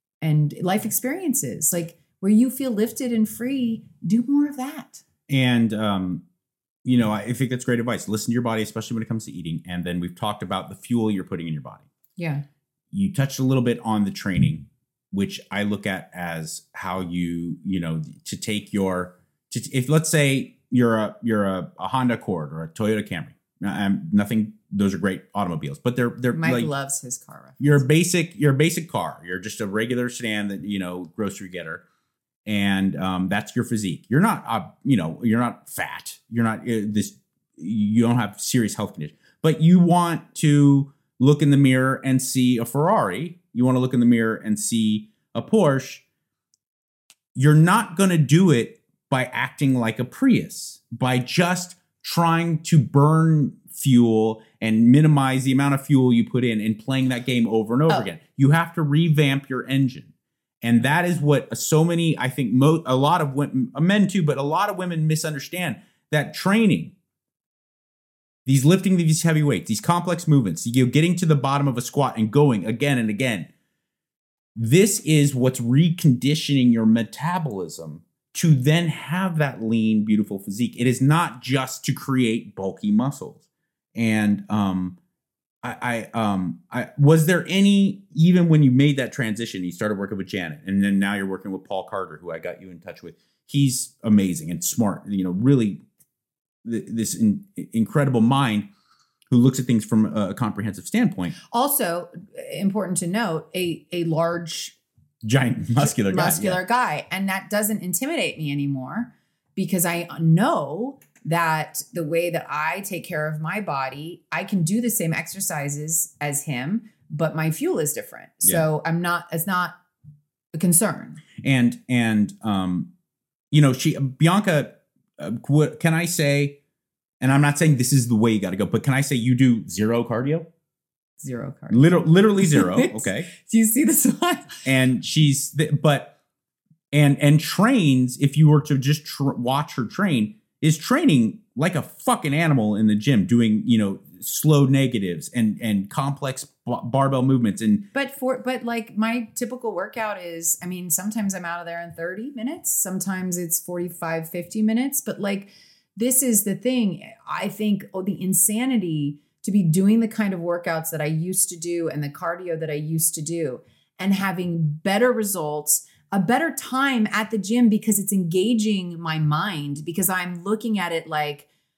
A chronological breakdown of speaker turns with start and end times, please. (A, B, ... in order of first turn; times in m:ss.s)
0:00.2-0:05.0 A
0:05.3-0:06.2 B
0:06.8-0:11.8 B
0:12.2-0:12.4 A
0:12.9-0:26.7 B
0:26.3-0:27.8 A
0:27.6-0:31.8 B
0:32.4-0:46.0 B
0:47.3-1:06.9 B
1:08.4-1:13.5 B
1:14.5-1:23.4 B
1:23.9-1:25.0 B
1:25.6-1:35.8 B
1:36.6-1:38.7 B
1:39.3-1:41.3 B
1:41.5-1:44.8 A
1:45.2-1:46.6 B
1:46.1-1:59.8 A
2:00.5-2:01.2 A
2:01.4-2:02.9 B
2:03.5-2:06.6 B
2:07.2-2:10.4 B
2:11.2-2:14.6 A
2:11.7-2:13.3 B
2:14.6-2:16.1 B
2:16.9-2:27.8 B
2:27.9-2:51.5 A